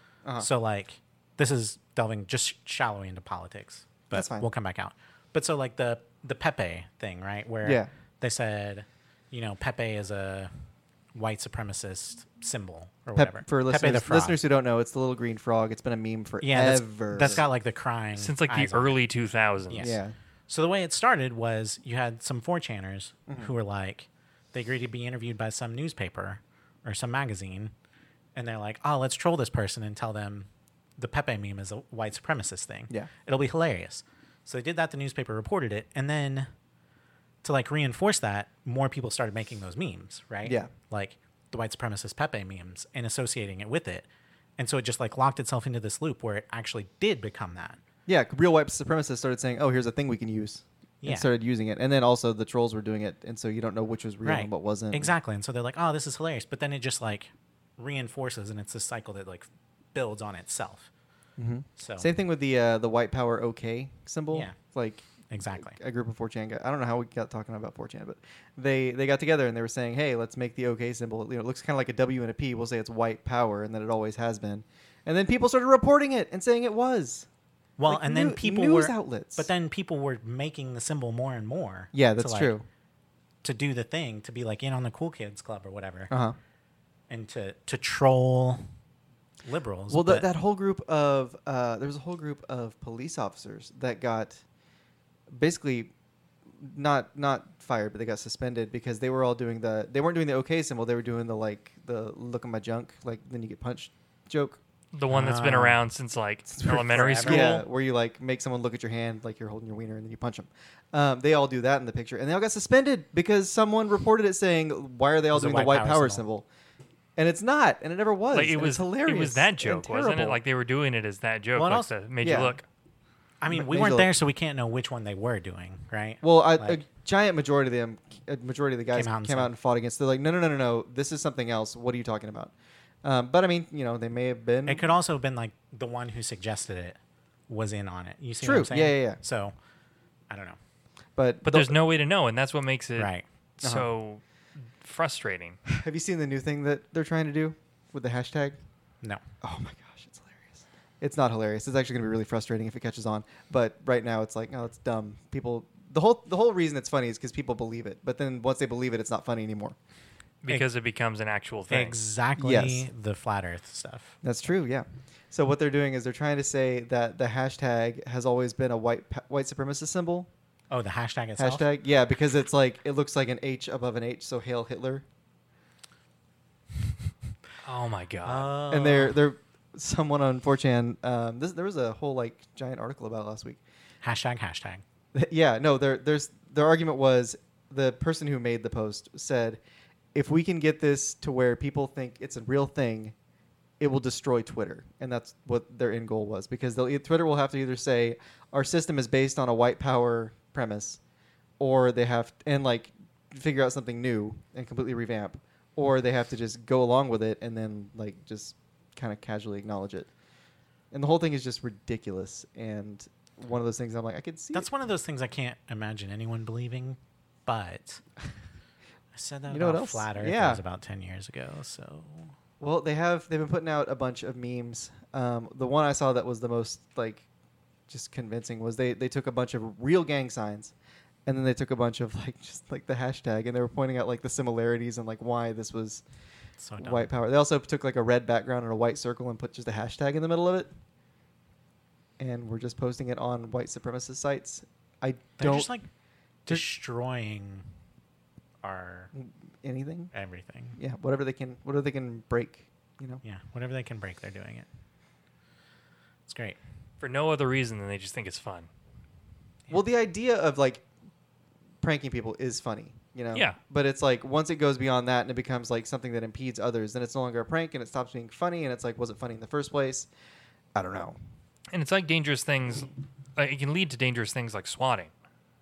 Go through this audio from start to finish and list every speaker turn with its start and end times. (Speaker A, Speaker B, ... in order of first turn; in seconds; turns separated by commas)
Speaker A: 0.4-10.5, Speaker B: 4.1-4.5, Speaker B: 7.6-7.9, Speaker A: 11.2-14.4, Speaker B: 13.2-17.5, Speaker A: 16.4-19.0, Speaker C: 18.2-19.9, Speaker A: 19.7-27.7, Speaker B: 19.8-20.2, Speaker A: 28.4-36.5, Speaker A: 37.4-44.1, Speaker B: 40.4-40.7, Speaker A: 44.6-47.8, Speaker B: 48.1-55.1, Speaker A: 51.0-51.3, Speaker A: 54.2-60.9, Speaker B: 61.4-77.3, Speaker A: 61.8-62.1, Speaker A: 64.3-64.6, Speaker A: 65.3-65.8, Speaker A: 77.8-82.6, Speaker B: 77.9-79.5, Speaker B: 81.9-82.7, Speaker A: 83.4-86.1, Speaker B: 86.1-86.4, Speaker A: 87.1-88.7, Speaker A: 89.5-90.3, Speaker B: 89.9-94.4, Speaker B: 95.3-95.9, Speaker B: 96.5-104.6, Speaker C: 104.9-107.7, Speaker A: 105.1-105.8, Speaker B: 106.5-116.5, Speaker A: 106.9-107.5, Speaker A: 115.3-116.2, Speaker B: 117.2-120.4, Speaker C: 118.3-122.7, Speaker A: 121.6-121.9, Speaker B: 122.2-122.6, Speaker A: 123.4-126.8, Speaker B: 123.5-124.1, Speaker B: 126.2-134.9, Speaker A: 128.9-129.5, Speaker A: 134.7-137.0, Speaker A: 137.5-139.5, Speaker B: 138.4-139.2, Speaker A: 140.3-140.6, Speaker B: 141.2-141.8, Speaker C: 141.4-144.2, Speaker A: 143.0-143.2, Speaker B: 143.6-143.9, Speaker C: 144.8-145.6, Speaker B: 145.7-148.6, Speaker B: 149.4-159.8, Speaker C: 160.4-162.0, Speaker A: 161.7-164.2, Speaker B: 162.4-162.9, Speaker B: 164.2-170.3, Speaker A: 170.7-171.7, Speaker B: 171.4-175.1, Speaker C: 177.6-178.5, Speaker A: 178.2-179.2, Speaker B: 178.7-183.6, Speaker A: 184.0-184.8, Speaker B: 185.1-189.6, Speaker B: 190.1-193.2, Speaker B: 193.8-201.0, Speaker B: 201.6-210.1, Speaker B: 210.9-214.7, Speaker A: 214.5-218.0, Speaker A: 219.1-222.3, Speaker B: 219.5-220.6, Speaker B: 222.6-227.3, Speaker B: 227.9-230.7, Speaker B: 231.3-236.0, Speaker A: 236.6-237.1, Speaker B: 236.8-240.7, Speaker B: 242.2-245.7, Speaker A: 245.4-245.9, Speaker A: 246.5-247.7, Speaker A: 248.6-249.1, Speaker B: 249.1-250.1, Speaker A: 250.1-250.8, Speaker B: 250.8-253.2, Speaker A: 253.2-254.7, Speaker A: 256.3-256.6, Speaker C: 257.0-258.7, Speaker B: 259.7-260.9, Speaker B: 261.8-270.1, Speaker B: 270.7-271.2, Speaker C: 271.7-275.1